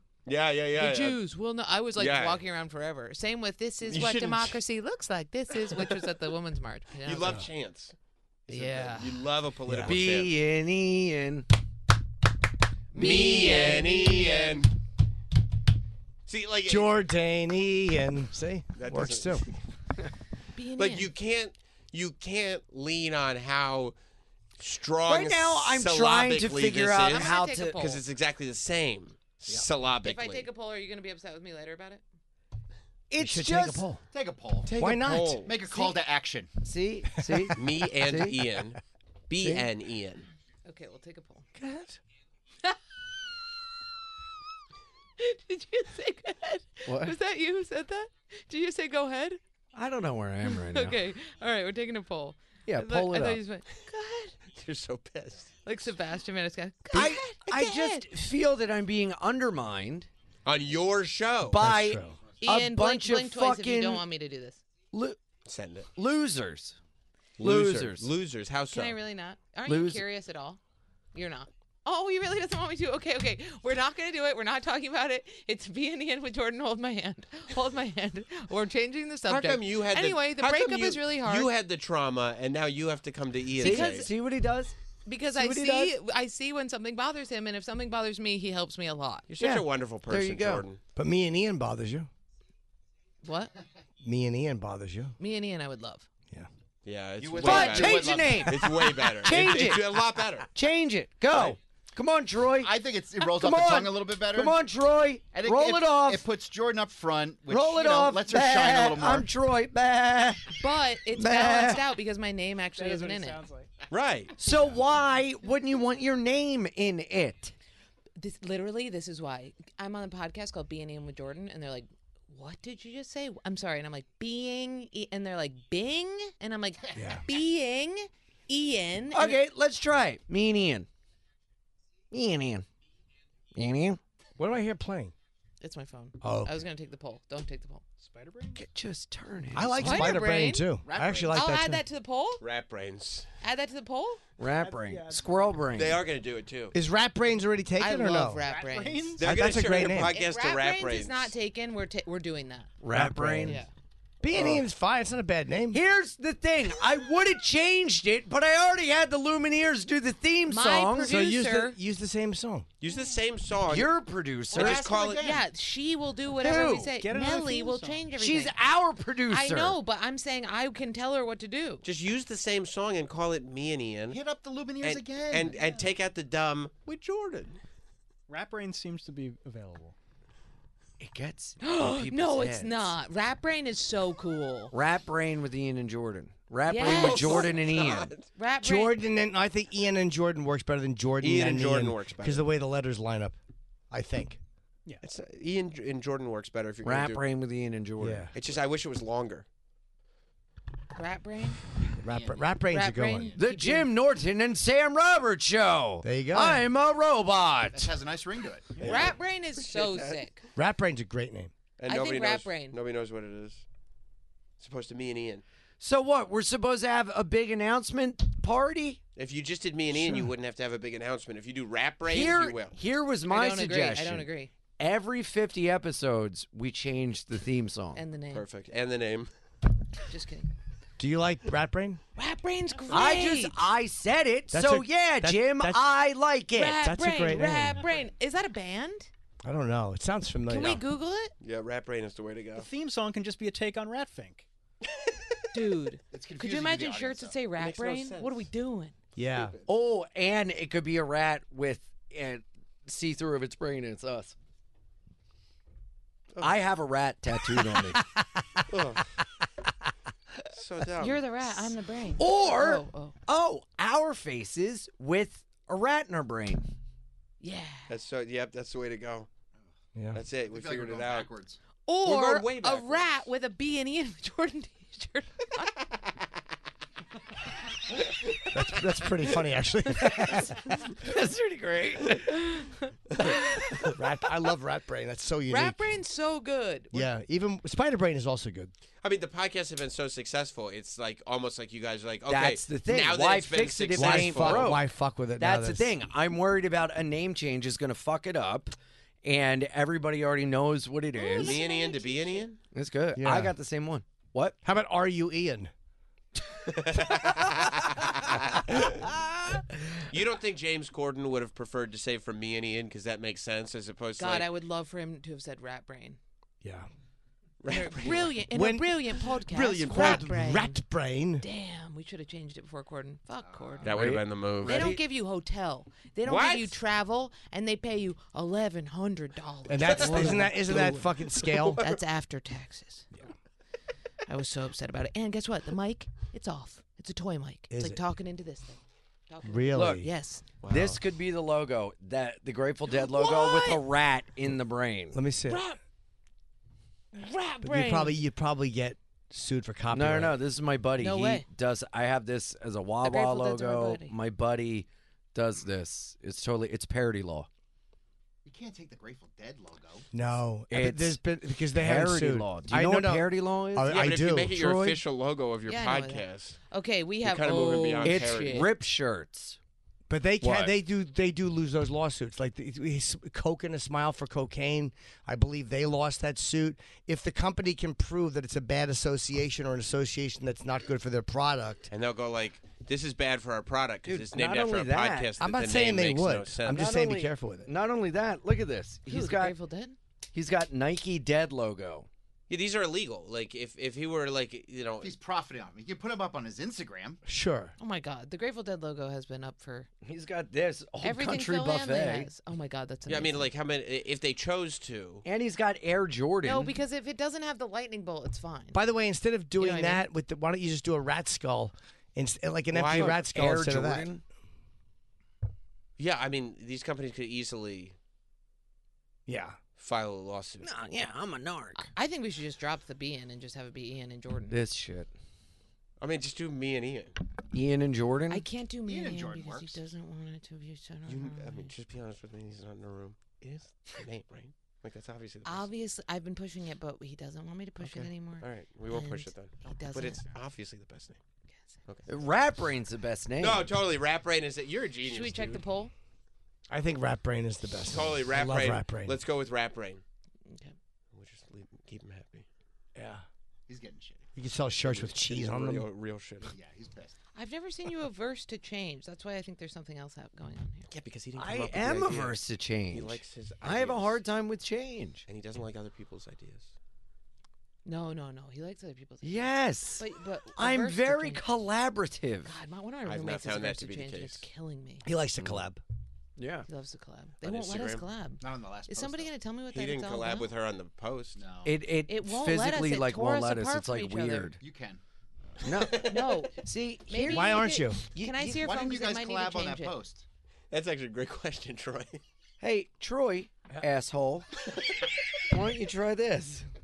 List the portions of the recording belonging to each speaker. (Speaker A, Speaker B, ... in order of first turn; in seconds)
Speaker A: 0.2-1.2, 2.0-2.4, 3.9-4.6, 7.0-7.9, 8.5-10.3, 12.9-14.7, 16.3-16.9, 18.7-19.5, 20.8-23.9, 24.6-30.4, 34.6-35.6, 37.5-40.3, 41.6-42.0, 54.5-55.5, 60.4-61.6, 65.5-65.9, 67.4-69.0, 79.3-84.1, 89.3-90.8, 96.8-100.5, 113.9-114.3, 142.4-143.3, 145.7-146.7, 149.2-151.3, 162.8-163.9, 164.5-165.3, 171.8-174.2, 174.8-177.6, 186.8-188.2, 191.2-192.4, 195.0-197.2, 198.3-199.4, 209.6-210.2, 211.8-213.6, 214.6-215.4, 219.2-222.8, 228.3-229.3, 241.4-242.7, 245.0-245.3, 247.6-248.4, 249.2-249.6, 256.3-256.6, 258.7-259.1, 260.5-261.2, 267.9-269.3, 270.1-271.3, 272.0-273.1, 283.2-283.9, 289.0-294.7, 301.4-302.6, 306.7-309.1, 310.0-314.5, 317.6-318.4, 319.6-320.2, 323.8-324.9, 326.2-326.7, 329.8-332.0, 340.6-341.0, 363.9-366.6, 367.2-368.7, 381.9-386.9, 392.5-395.1, 403.1-405.2, 412.7-413.2, 416.0-417.9, 419.8-420.7, 426.0-427.1, 431.1-435.7, 438.4-441.2, 443.4-445.6, 447.9-450.0, 451.1-452.4, 454.8-456.5, 460.9-462.4, 462.9-464.2, 465.3-466.7, 473.0-474.4, 477.4-478.0, 479.7-481.4, 485.7-486.4, 490.7-492.2
Speaker B: 0.8-7.4, 8.5-9.2, 12.9-14.6, 20.5-21.1, 27.0-28.0, 30.0-32.0, 40.6-41.5, 45.2-49.4, 50.4-54.4, 55.6-58.1, 62.4-64.6, 68.7-70.6, 71.1-81.5, 83.6-84.1, 85.0-89.3, 93.2-93.5, 95.2-96.1, 110.6-113.4, 118.2-129.4, 135.6-137.8, 139.8-140.7, 141.3-142.4, 143.4-144.2, 147.8-149.2, 150.0-152.7, 153.4-153.7, 160.5-161.8, 164.6-168.6, 169.3-171.8, 181.6-184.7, 186.7-187.5, 188.3-188.9, 200.9-201.6, 202.7-203.9, 208.8-210.4, 211.9-212.8, 223.3-224.5, 227.9-228.4, 230.1-230.5, 232.2-233.7, 236.5-239.1, 240.5-241.3, 245.5-248.9, 261.0-263.1, 267.4-267.9, 271.9-275.7, 282.3-282.9, 285.5-287.1, 301.1-302.4, 314.2-316.2, 317.7-320.8, 321.4-324.1, 324.6-331.0, 331.8-333.1, 334.2-340.4, 342.9-343.8, 345.5-345.8, 347.1-348.2, 351.0-351.4, 353.0-354.1, 365.7-368.7, 389.1-390.0, 397.8-399.9, 401.0-403.5, 406.4-408.8, 409.6-410.0, 421.8-424.6, 428.3-431.7, 435.4-440.2, 445.1-445.9, 450.5-450.7, 457.3-460.9, 467.8-471.4, 472.4-475.1, 476.7-480.5, 482.1-484.5, 485.9-489.9
Speaker C: 9.7-10.0, 16.6-19.4, 33.2-34.0, 34.8-35.4, 37.2-37.6, 61.6-62.2, 91.0-92.1, 94.0-95.1, 126.9-127.2, 134.4-135.1, 136.2-136.6, 139.5-141.8, 146.7-148.4, 149.2-150.2, 152.9-153.6, 154.2-155.8, 161.1-162.7, 188.6-193.3, 193.9-194.4, 198.0-198.3, 202.0-203.3, 206.0-206.7, 210.6-211.5, 231.0-232.0, 234.5-235.9, 236.6-237.8, 239.4-240.8, 249.2-249.5, 269.9-270.2, 278.4-280.6, 283.8-285.8, 286.9-288.7, 293.9-295.9, 303.1-303.5, 304.6-305.7, 316.6-316.9, 318.5-321.4, 329.7-331.8, 337.7-338.0, 339.4-340.1, 345.1-345.6, 347.6-350.4, 360.1-364.5, 370.1-381.9, 385.4-387.7, 397.2-397.7, 408.7-414.1, 419.3-419.6, 446.7-449.2, 452.9-453.2, 454.4-455.9, 475.0-475.8, 487.2-488.0
Speaker D: 9.8-11.5, 13.0-13.6, 25.1-27.8, 33.1-33.9, 36.6-38.4, 46.9-47.1, 49.7-51.0, 52.6-53.4, 56.9-60.1, 61.5-64.0, 64.9-65.2, 65.9-66.8, 67.4-68.1, 69.7-70.0, 83.6-84.7, 85.3-85.9, 89.4-90.6, 97.4-106.3, 107.5-110.6, 111.2-111.8, 114.4-117.5, 129.1-130.9, 132.1-132.7, 133.5-134.0, 138.5-140.2, 144.4-146.0, 152.8-153.6, 154.3-154.6, 155.7-161.2, 163.7-164.8, 166.4-166.9, 168.2-169.8, 181.0-182.9, 184.7-188.1, 196.8-198.3, 203.4-207.9, 215.8-219.0, 222.0-228.0, 232.9-236.8, 249.7-254.3, 256.4-258.1, 262.2-266.6, 280.0-282.4, 292.3-294.8, 295.4-301.6, 302.7-304.6, 309.1-309.6, 323.9-325.0, 340.7-345.2, 349.9-357.5, 360.7-361.2, 361.7-365.0, 368.0-369.6, 370.4-370.7, 384.1-385.3, 386.7-389.5, 390.3-392.1, 400.0-402.3, 405.2-406.8, 412.9-414.2, 420.6-421.9, 424.5-425.1, 427.5-428.4, 442.1-443.7, 461.4-465.2, 469.2-472.5, 476.4-476.7, 481.6-484.6, 485.6-488.7, 492.6-494.5, 495.5-496.6
Speaker E: 34.1-34.8, 35.4-36.5, 97.2-98.6, 102.5-104.6, 105.3-109.3, 140.8-141.3, 164.5-165.4, 174.1-175.8, 202.1-202.4, 207.7-208.9, 246.1-247.4, 270.5-271.6, 358.4-360.1, 395.0-397.2, 428.9-429.8, 453.7-454.3, 456.5-457.1, 478.4-479.3, 481.3-481.8, 484.6-485.0, 488.6-490.2
Speaker F: 112.7-113.7, 138.0-138.6, 144.5-145.6, 148.4-149.3, 166.9-168.1, 178.3-179.9, 242.5-244.5